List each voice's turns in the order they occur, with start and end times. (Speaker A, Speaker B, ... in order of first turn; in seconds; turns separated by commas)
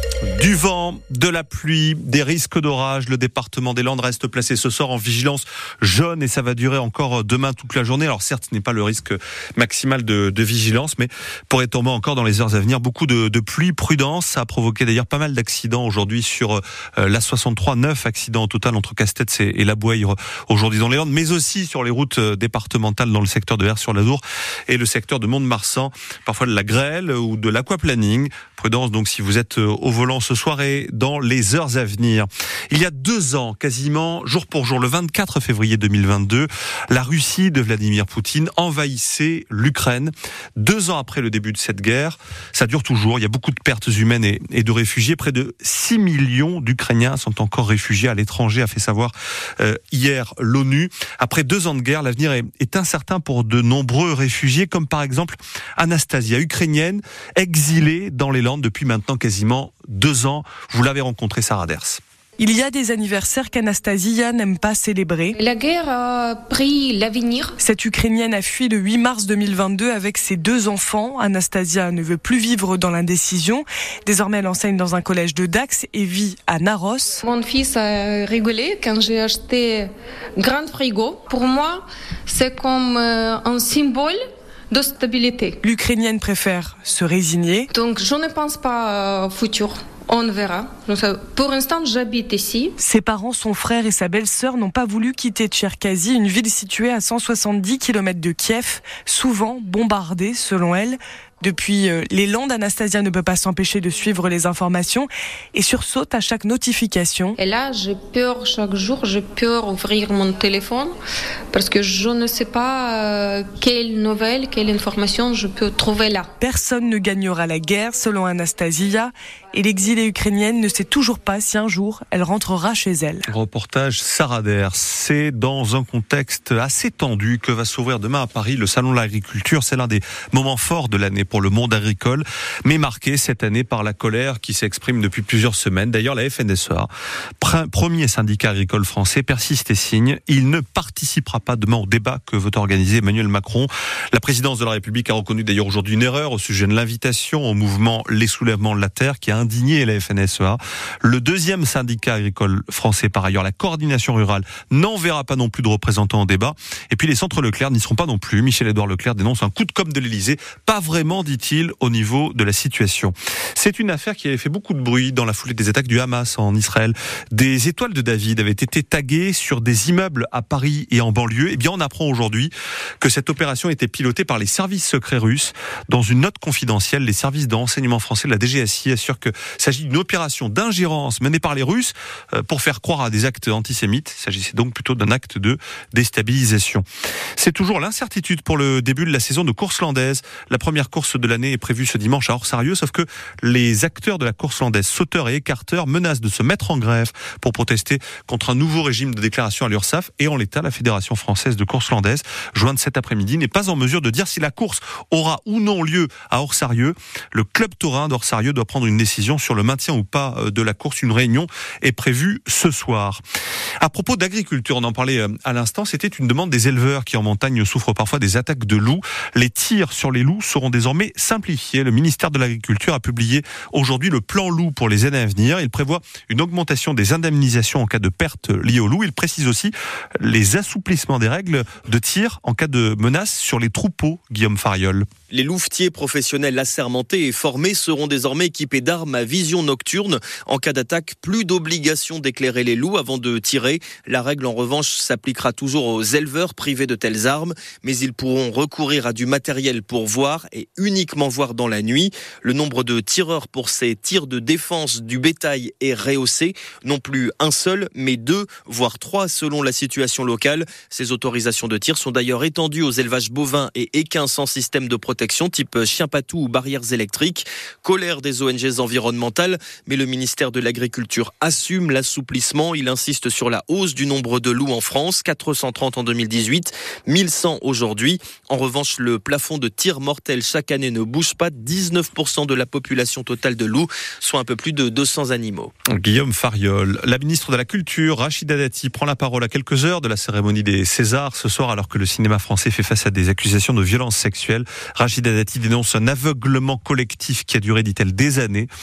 Speaker A: 0.2-62.0, Speaker B: 62.4-65.3, Speaker C: 65.3-67.5, Speaker B: 67.6-77.2, Speaker C: 77.2-84.2, Speaker C: 84.7-85.6, Speaker B: 85.6-87.7, Speaker C: 87.7-92.7, Speaker B: 92.8-107.3, Speaker C: 107.3-110.9, Speaker C: 111.5-116.3, Speaker B: 116.4-123.3, Speaker A: 123.3-136.9, Speaker A: 137.4-186.8, Speaker A: 187.4-213.2, Speaker A: 213.8-235.1, Speaker D: 235.3-285.7, Speaker A: 285.9-298.7